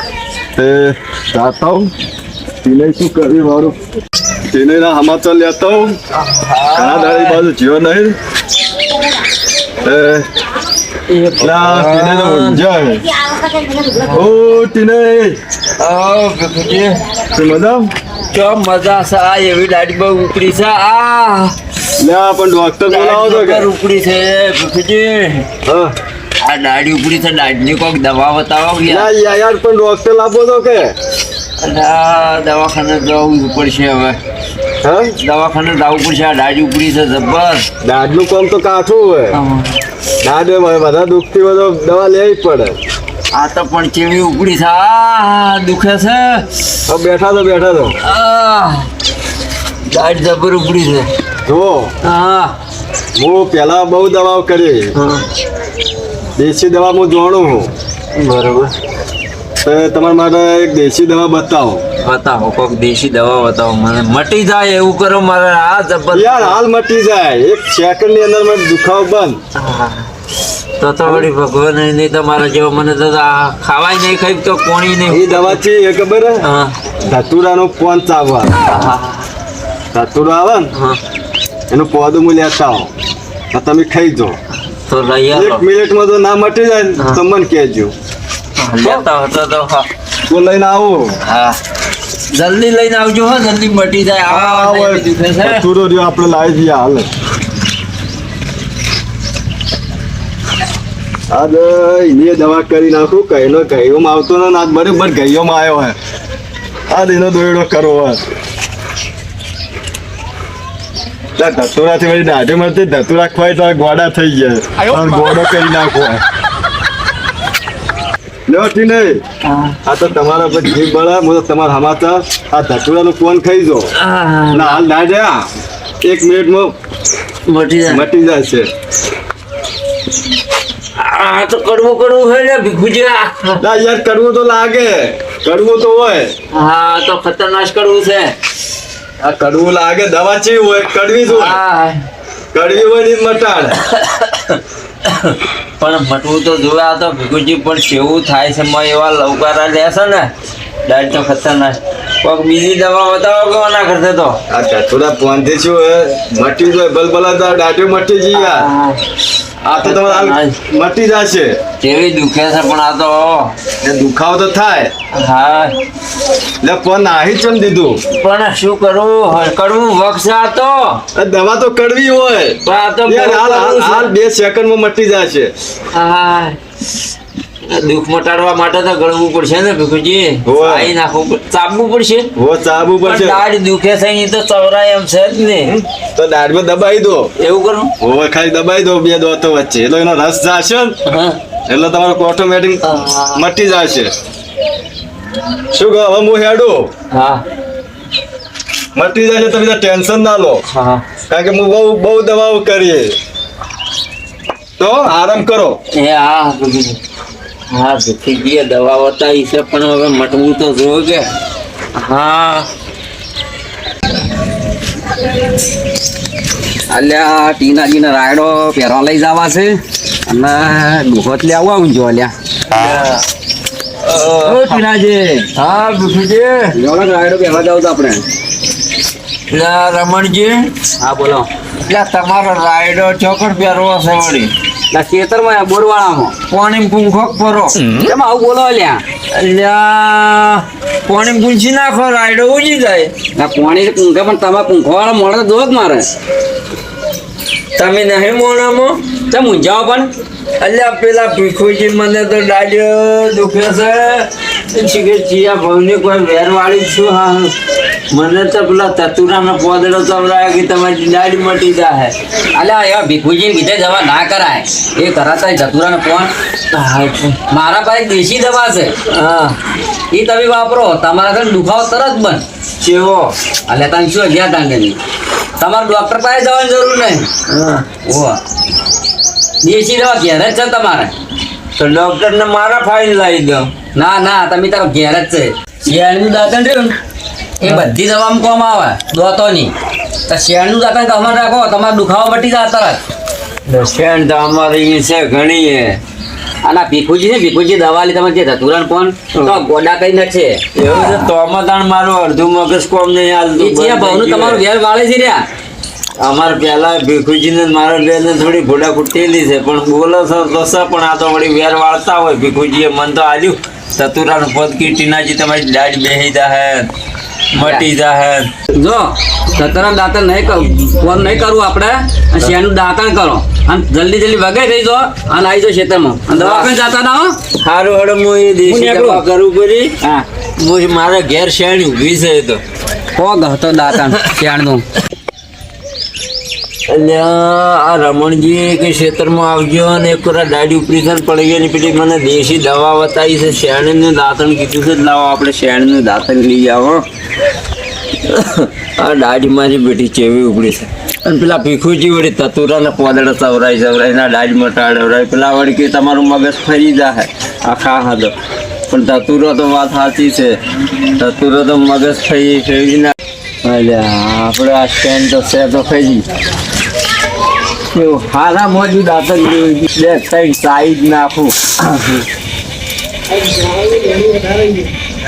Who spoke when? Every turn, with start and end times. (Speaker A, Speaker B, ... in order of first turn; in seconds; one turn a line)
Speaker A: 0.6-1.9
Speaker A: 2.6-3.7
Speaker A: 4.5-5.9
Speaker B: 6.1-7.4
Speaker A: 6.8-8.1
Speaker A: 9.8-10.2
Speaker B: 11.1-12.6
Speaker A: 11.5-12.6
Speaker B: 14.0-14.3
Speaker A: 14.3-15.3
Speaker B: 15.8-17.0
Speaker A: 17.4-17.8
Speaker B: 18.3-21.6
Speaker A: 22.0-23.6
Speaker B: 22.9-25.5
Speaker A: 25.7-25.9
Speaker B: 26.4-29.1
Speaker A: 29.0-30.9
Speaker B: 31.6-34.2
Speaker B: 35.2-37.7
Speaker A: 37.8-39.3
Speaker B: 39.4-39.8
Speaker A: 40.2-42.8
Speaker B: 43.3-46.5
Speaker A: 46.9-47.9
Speaker B: 48.0-48.9
Speaker B: 49.9-51.1
Speaker A: 51.5-51.9
Speaker B: 52.0-52.6
Speaker A: 53.2-54.8
Speaker B: 55.0-55.2
Speaker A: 56.4-57.7
Speaker B: 58.1-58.7
Speaker A: 59.6-61.8
Speaker B: 62.0-66.6
Speaker A: 66.4-69.4
Speaker B: 69.5-70.1
Speaker B: 70.8-75.6
Speaker A: 75.2-76.3
Speaker B: 76.4-76.7
Speaker A: 77.1-78.5
Speaker B: 78.7-79.3
Speaker A: 79.9-80.6
Speaker A: 81.7-82.9
Speaker A: 83.5-84.3
Speaker B: 84.9-85.6
Speaker A: 85.4-87.9
Speaker B: 88.6-89.9
Speaker A: 90.3-91.1
Speaker B: 91.3-91.6
Speaker B: 92.3-95.7
Speaker A: 94.4-97.0
Speaker A: 101.3-106.0
Speaker A: 106.9-108.2
Speaker A: 111.4-116.2
Speaker A: 118.5-119.2
Speaker B: 119.5-119.8
Speaker A: 119.9-123.9
Speaker B: 124.0-124.8
Speaker A: 124.5-125.4
Speaker A: 126.0-126.7
Speaker B: 127.5-128.1
Speaker A: 128.0-128.7
Speaker B: 131.0-133.6
Speaker A: 133.7-136.3
Speaker B: 136.5-138.3
Speaker A: 139.2-141.5
Speaker B: 141.3-142.1
Speaker A: 142.5-143.6
Speaker B: 143.9-150.3
Speaker B: 150.8-154.4
Speaker A: 154.5-158.6
Speaker B: 158.3-159.0
Speaker B: 159.6-160.6
Speaker A: 159.8-161.5
Speaker B: 161.8-163.6
Speaker A: 163.8-164.9
Speaker B: 165.1-165.8
Speaker A: 166.6-167.9
Speaker B: 168.1-171.0
Speaker A: 171.2-172.5
Speaker B: 172.6-174.1
Speaker A: 173.1-175.5
Speaker B: 175.9-176.6
Speaker B: 177.7-182.3
Speaker A: 180.5-180.8
Speaker A: 182.4-183.3
Speaker B: 183.0-185.8
Speaker A: 186.2-187.2
Speaker B: 187.4-187.9
Speaker A: 188.0-190.9
Speaker B: 191.1-191.4
Speaker A: 191.7-192.8
Speaker B: 192.8-193.4
Speaker A: 193.6-194.1
Speaker A: 195.7-196.9
Speaker B: 197.1-197.4
Speaker A: 198.9-200.6
Speaker B: 200.7-201.1
Speaker A: 201.3-203.2
Speaker A: 204.8-205.8
Speaker B: 205.9-207.0
Speaker B: 207.7-211.3
Speaker B: 212.0-212.7
Speaker C: 216.9-222.3
Speaker B: 222.7-223.2
Speaker B: 224.0-226.8
Speaker C: 224.4-225.4
Speaker C: 226.8-228.2
Speaker B: 229.5-230.7
Speaker C: 231.0-231.5
Speaker B: 231.8-234.5
Speaker C: 234.9-236.3
Speaker B: 236.5-237.9
Speaker C: 238.0-239.0
Speaker B: 239.3-243.1
Speaker C: 243.4-246.1
Speaker B: 247.8-249.1
Speaker C: 249.3-250.1
Speaker B: 250.6-257.5
Speaker B: 258.1-262.1
Speaker C: 262.5-266.3
Speaker B: 266.7-267.4
Speaker C: 267.5-269.0
Speaker B: 269.1-269.6
Speaker C: 270.1-272.4
Speaker B: 272.8-273.4
Speaker C: 273.7-275.0
Speaker C: 275.6-277.3
Speaker B: 277.5-277.9
Speaker C: 278.0-278.4
Speaker C: 279.6-281.1
Speaker B: 281.8-283.7
Speaker C: 283.9-287.0
Speaker C: 287.6-289.7
Speaker C: 290.3-293.0
Speaker B: 293.7-296.0
Speaker C: 296.6-300.7
Speaker B: 300.7-304.6
Speaker C: 303.6-305.5
Speaker B: 306.2-316.9
Speaker B: 317.5-318.5
Speaker C: 317.6-317.9
Speaker C: 318.7-327.4
Speaker B: 326.3-326.7
Speaker B: 327.6-329.9
Speaker C: 328.7-329.2
Speaker B: 330.6-332.6
Speaker C: 333.2-334.9
Speaker B: 336.9-347.1
Speaker B: 348.2-358.3
Speaker B: 358.9-360.6
Speaker B: 361.2-366.3
Speaker B: 367.9-372.2